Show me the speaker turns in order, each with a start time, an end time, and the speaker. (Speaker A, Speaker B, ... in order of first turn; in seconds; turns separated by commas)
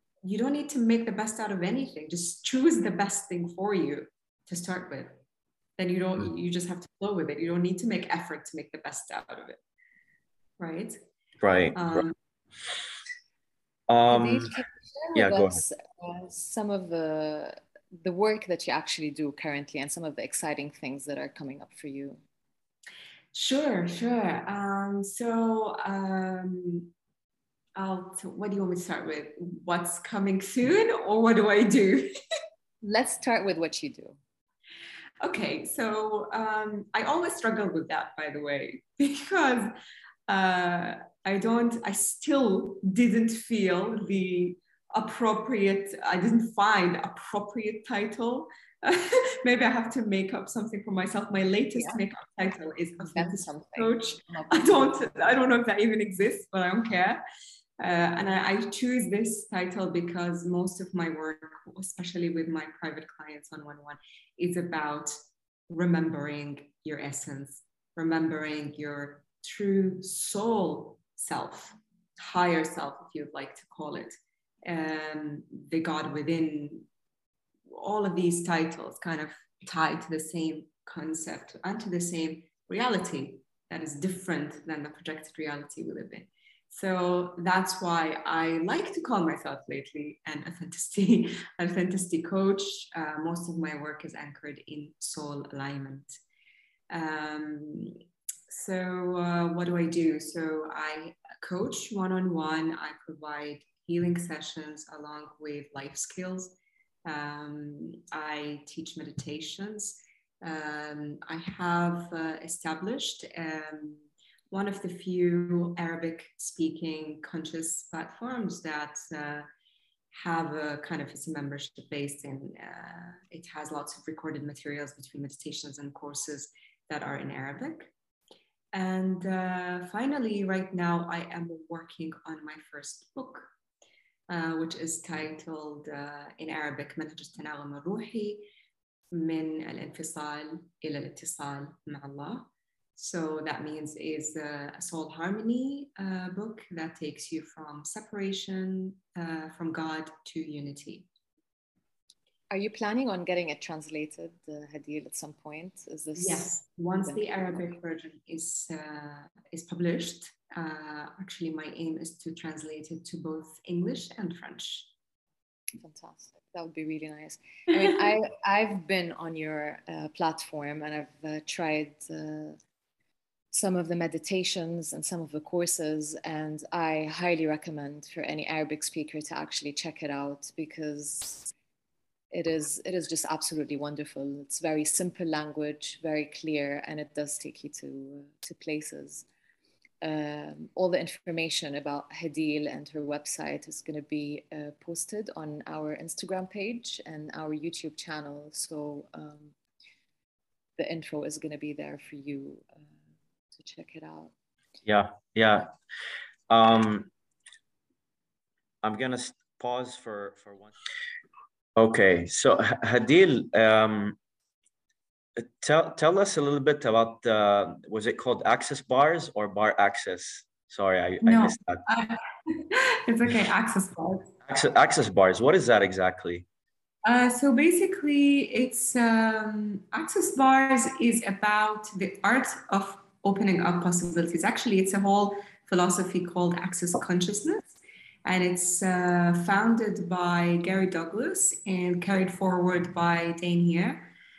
Speaker A: 0.2-5.2, Speaker A: 5.8-9.6, Speaker A: 10.6-11.0, Speaker B: 11.4-12.1, Speaker A: 11.8-12.2, Speaker B: 13.9-14.6, Speaker C: 14.1-22.2, Speaker B: 15.2-15.6, Speaker A: 23.3-26.9, Speaker A: 27.8-32.1, Speaker C: 32.8-34.2, Speaker A: 35.2-39.7, Speaker A: 40.3-57.2, Speaker C: 51.8-52.0, Speaker C: 53.0-55.1, Speaker A: 57.8-65.2, Speaker A: 65.7-76.9, Speaker A: 77.7-96.1, Speaker A: 96.9-98.0, Speaker A: 98.5-119.5, Speaker A: 120.1-127.9, Speaker A: 128.7-133.5, Speaker A: 134.3-138.5, Speaker A: 139.1-151.1, Speaker C: 152.5-157.6, Speaker A: 156.2-164.9, Speaker C: 165.8-172.6, Speaker C: 173.5-181.5, Speaker C: 182.3-189.3, Speaker C: 190.0-199.5, Speaker C: 200.8-202.8, Speaker C: 203.5-204.3, Speaker B: 204.9-205.7, Speaker B: 206.5-207.1, Speaker B: 208.8-210.7, Speaker B: 211.8-214.2, Speaker B: 215.4-221.8, Speaker A: 221.2-224.3, Speaker B: 224.5-226.5, Speaker A: 227.0-244.1